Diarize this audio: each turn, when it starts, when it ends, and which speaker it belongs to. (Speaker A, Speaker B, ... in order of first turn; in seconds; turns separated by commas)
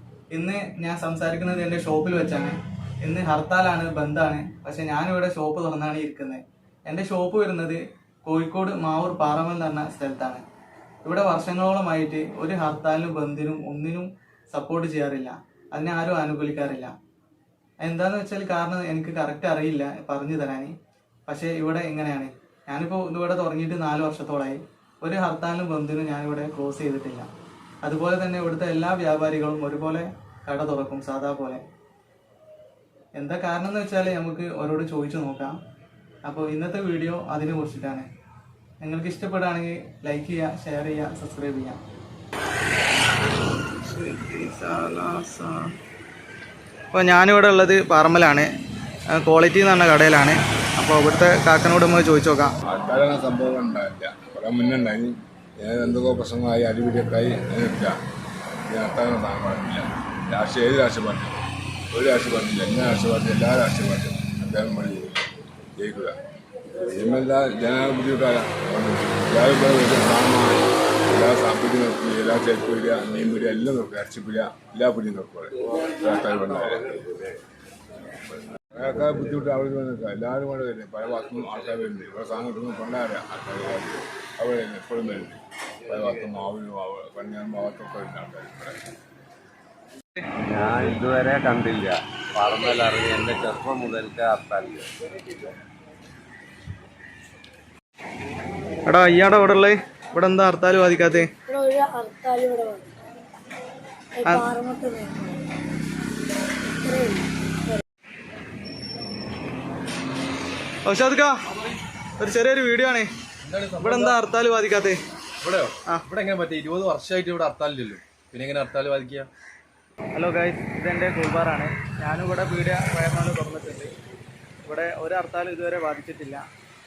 Speaker A: 0.3-10.4, Speaker A: 11.0-16.9, Speaker A: 17.8-20.7, Speaker A: 21.3-27.3, Speaker A: 27.8-31.6, Speaker A: 33.1-35.5, Speaker A: 36.2-38.0, Speaker A: 38.8-41.8, Speaker A: 43.6-45.7, Speaker A: 46.9-48.5, Speaker A: 49.1-52.5, Speaker B: 52.6-58.0, Speaker B: 58.7-65.1, Speaker B: 65.8-66.2, Speaker B: 66.7-77.2, Speaker B: 78.7-88.8, Speaker C: 90.5-94.9, Speaker A: 98.8-101.3, Speaker D: 101.4-102.9, Speaker D: 104.2-105.5, Speaker D: 106.7-107.8, Speaker A: 110.8-111.4, Speaker A: 112.2-113.1, Speaker E: 113.4-114.2, Speaker A: 113.8-115.0, Speaker E: 115.4-119.3, Speaker A: 120.1-123.9, Speaker A: 124.7-126.4